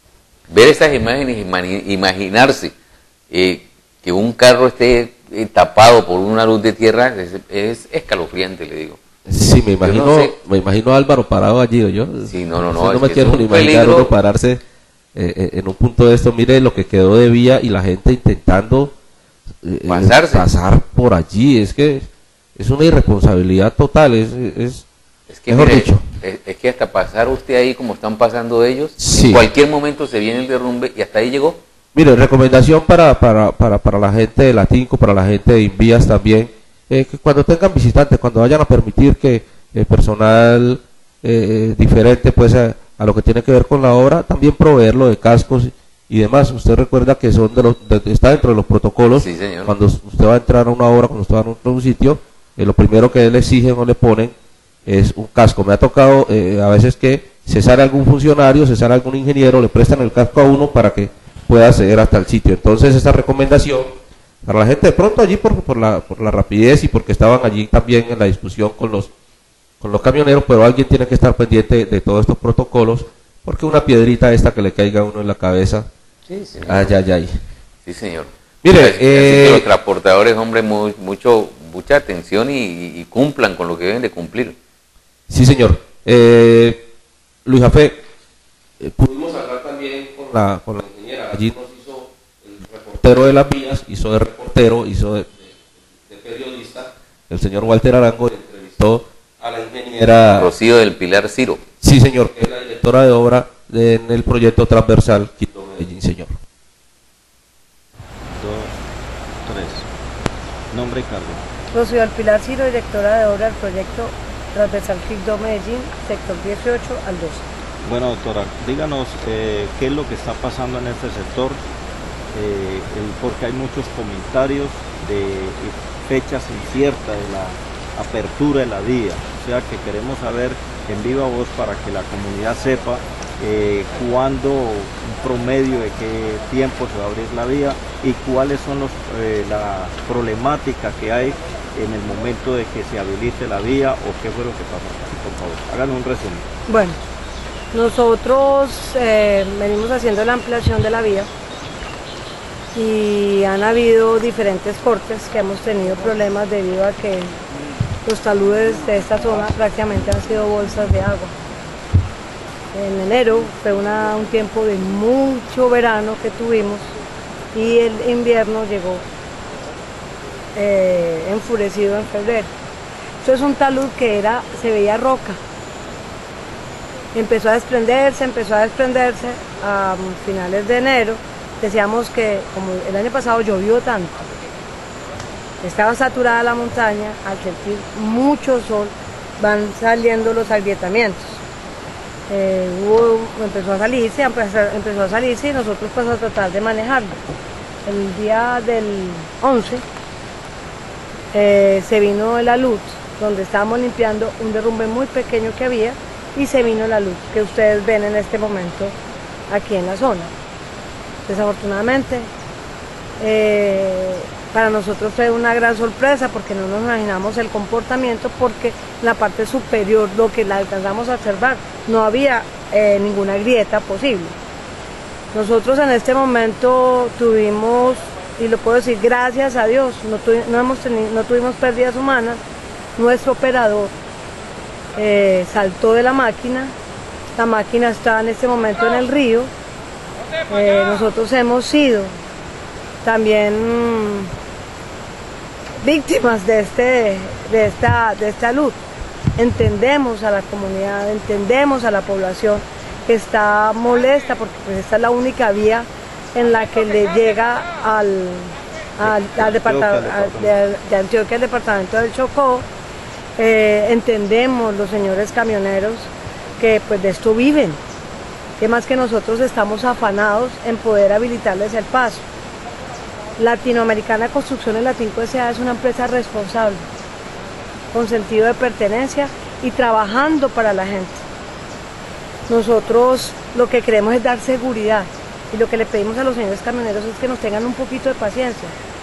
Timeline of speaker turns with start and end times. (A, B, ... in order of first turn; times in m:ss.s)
0:00.5-0:02.7 A
0:03.3-0:09.0 A
0:09.3-0:14.6 B
0:09.8-0:10.4 A
0:12.3-0:14.1 A
0:15.2-0:18.9 B
0:19.6-0:24.9 B
0:19.9-0:20.4 A
0:25.3-0:31.6 A
0:25.5-0:26.0 B
0:29.0-0:29.5 B
0:31.9-0:54.3 B
0:49.2-0:49.7 A
0:54.9-1:09.1 B
1:09.8-1:15.9 B
1:16.3-1:16.9 A
1:16.7-1:17.3 B
1:17.8-1:24.6 A
1:18.6-1:19.7 B
1:25.3-1:26.9 B
1:27.5-1:28.0 B
1:28.8-1:40.5 B
1:40.4-1:41.6 A
1:41.8-1:46.4 B
1:48.3-1:48.7 C
1:49.4-1:49.9 C
1:50.7-1:51.4 C
1:51.7-1:57.4 D
1:57.8-2:01.6 C
2:02.3-2:26.5 C
2:26.7-2:27.0 D
2:27.7-2:31.3 D
2:32.7-2:37.3 D
2:38.0-2:41.3 D
2:42.7-2:46.9 D
2:47.5-2:49.0 D
2:50.6-2:52.5 D
2:53.2-2:55.4 D
2:57.1-3:04.3 D
3:05.6-3:11.4 D
3:12.3-3:17.2 D
3:17.9-3:19.8 D
3:21.3-3:29.0 D
3:29.5-3:30.3 D
3:31.3-3:32.3 D
3:33.2-3:44.4 D
3:45.3-3:52.4 D
3:53.0-3:53.9 D
3:55.0-3:56.7 D
3:57.4-3:59.5 D
4:00.5-4:02.1 D
4:03.0-4:04.3 D
4:05.8-4:08.8 D
4:09.4-4:22.7 D
4:19.0-4:20.6 C
4:23.4-4:27.8 D
4:28.6-4:32.3 D
4:33.4-4:36.8 D
4:37.9-4:41.2 D
4:42.5-4:48.7 D